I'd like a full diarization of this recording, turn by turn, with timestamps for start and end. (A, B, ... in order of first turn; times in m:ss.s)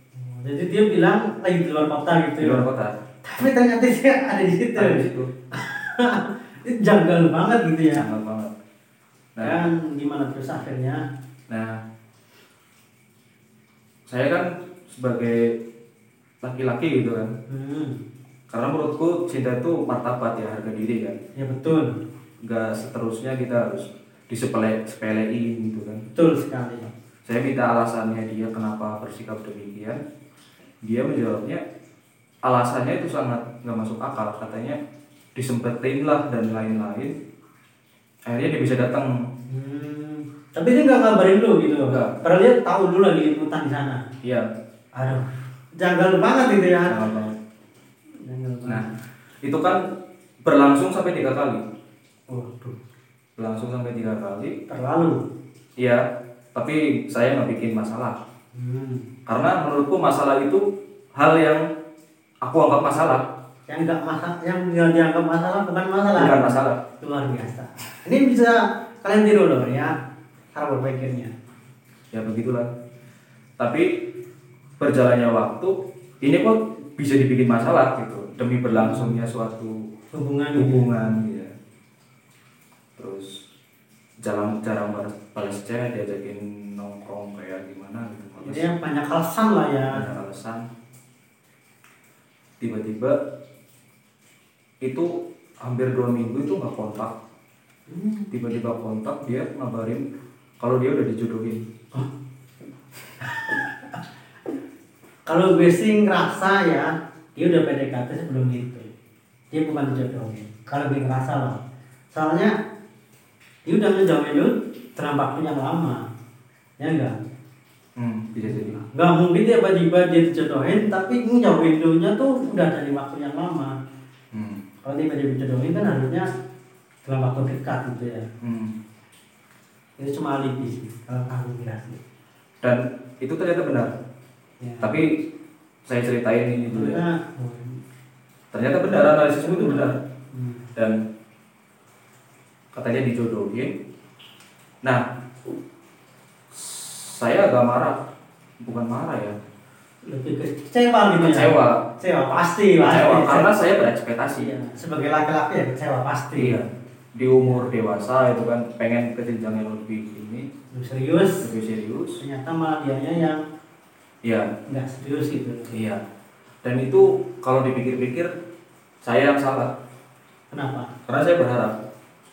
0:00.2-0:02.7 A
0:02.4-0:03.0 B
0:03.2-0:08.0 A
0:04.8-0:05.3 B
0:08.0-0:08.5 B
0:09.4-0:09.7 B
0:09.4-0:11.0 A
0:11.5-0:11.8 B
0:14.1-0:15.5 B
0:16.4-0:17.3 B
0:17.5-0:18.0 A
0:18.5-0:21.2 B
0:21.4-0:22.0 A
0:22.4-0:26.1 B
0:26.2-0:26.9 A
0:27.2-0:30.0 B
0:30.8-0:31.6 B
0:32.4-0:34.8 B
0:35.4-0:37.1 B
0:38.3-0:39.1 B
0:39.5-0:44.0 A
0:41.9-0:42.1 B
0:45.0-0:47.0 A
0:46.9-0:47.3 B
0:48.2-0:48.8 A
0:49.4-0:49.8 B
0:50.4-0:51.6 B
0:52.3-0:52.8 A
0:53.4-0:54.6 B
0:54.7-0:55.2 A
0:55.8-0:56.0 B
0:56.6-0:58.2 B
0:58.6-0:59.1 A
0:59.3-1:00.6 B
1:01.2-1:01.6 B
1:02.4-1:03.3 B
1:03.7-1:09.9 A
1:06.2-1:06.8 B
1:10.6-1:11.3 A
1:12.1-1:12.7 B
1:13.6-1:13.9 B
1:14.8-1:19.8 B
1:18.7-1:19.2 A
1:20.1-1:20.9 A
1:20.6-1:21.5 B
1:23.0-1:23.4 B
1:24.2-1:28.7 B
1:28.4-1:30.0 A
1:29.9-1:30.6 B
1:32.6-1:33.2 B
1:34.8-1:37.1 B
1:37.9-1:38.3 A
1:38.3-1:40.0 B
1:40.6-1:41.6 B
1:43.2-1:44.0 A
1:45.3-1:48.9 A
1:49.5-1:51.6 A
1:52.1-1:52.5 A
1:53.7-1:56.0 A
1:56.8-1:57.2 A
1:58.0-1:58.8 B
1:58.4-2:03.8 A
2:04.3-2:04.6 B
2:04.8-2:06.3 A
2:07.0-2:08.3 A
2:08.4-2:08.8 B
2:10.0-2:12.0 A
2:12.6-2:13.9 B
2:14.6-2:15.0 A
2:14.8-2:15.1 B
2:15.9-2:17.0 B
2:16.7-2:17.8 A
2:18.5-2:20.0 B
2:19.4-2:20.7 A
2:22.7-2:23.7 B
2:26.5-2:28.0 B
2:28.6-2:29.4 B
2:30.1-2:33.5 A
2:31.2-2:31.8 B
2:32.8-2:34.5 B
2:34.3-2:36.6 A
2:36.4-2:36.6 B
2:37.2-2:40.5 B
2:37.4-2:37.7 A
2:40.7-2:41.5 A
2:41.4-2:42.2 B
2:42.2-2:43.4 A
2:44.7-2:45.8 A
2:45.7-2:46.0 B
2:46.6-2:48.3 B
2:49.0-2:49.7 B
2:50.5-2:50.9 A
2:51.1-2:51.8 B